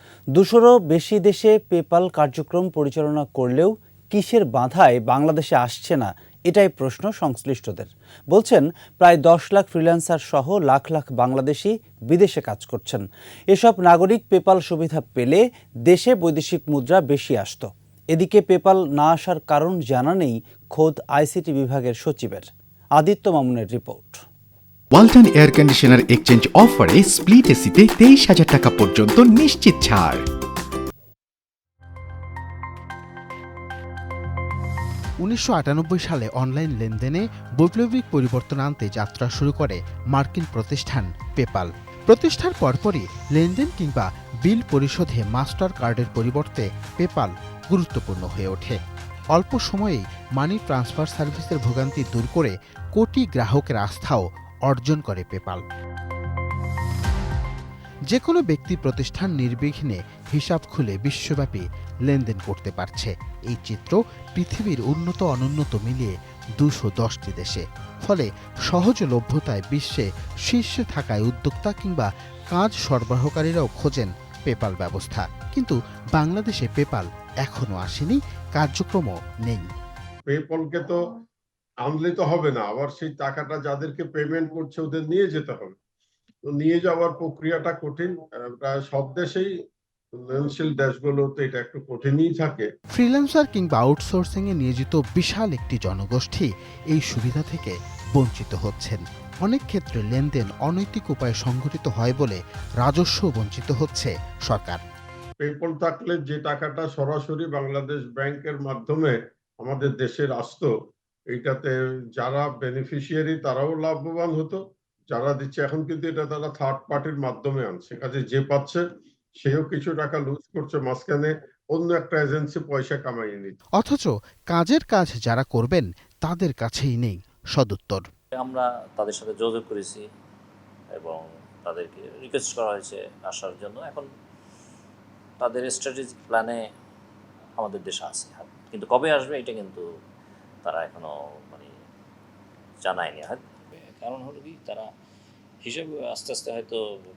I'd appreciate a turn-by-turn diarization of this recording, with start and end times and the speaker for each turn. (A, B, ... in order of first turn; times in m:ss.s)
0:00.3-0:24.2 A
0:24.9-0:30.2 B
0:35.2-0:48.8 C
0:49.3-0:55.6 C
0:58.1-1:19.7 C
1:20.2-1:21.0 D
1:21.8-1:25.8 D
1:26.5-1:29.5 D
1:30.1-1:32.7 D
1:32.9-1:44.8 C
1:45.4-1:50.7 D
1:51.3-1:54.6 D
1:55.1-1:58.8 D
1:59.4-2:03.6 D
2:03.8-2:08.0 C
2:08.3-2:10.0 E
2:10.9-2:14.1 E
2:15.4-2:16.6 E
2:17.6-2:19.9 E
2:20.6-2:21.7 E
2:22.8-2:24.9 E
2:25.6-2:26.8 E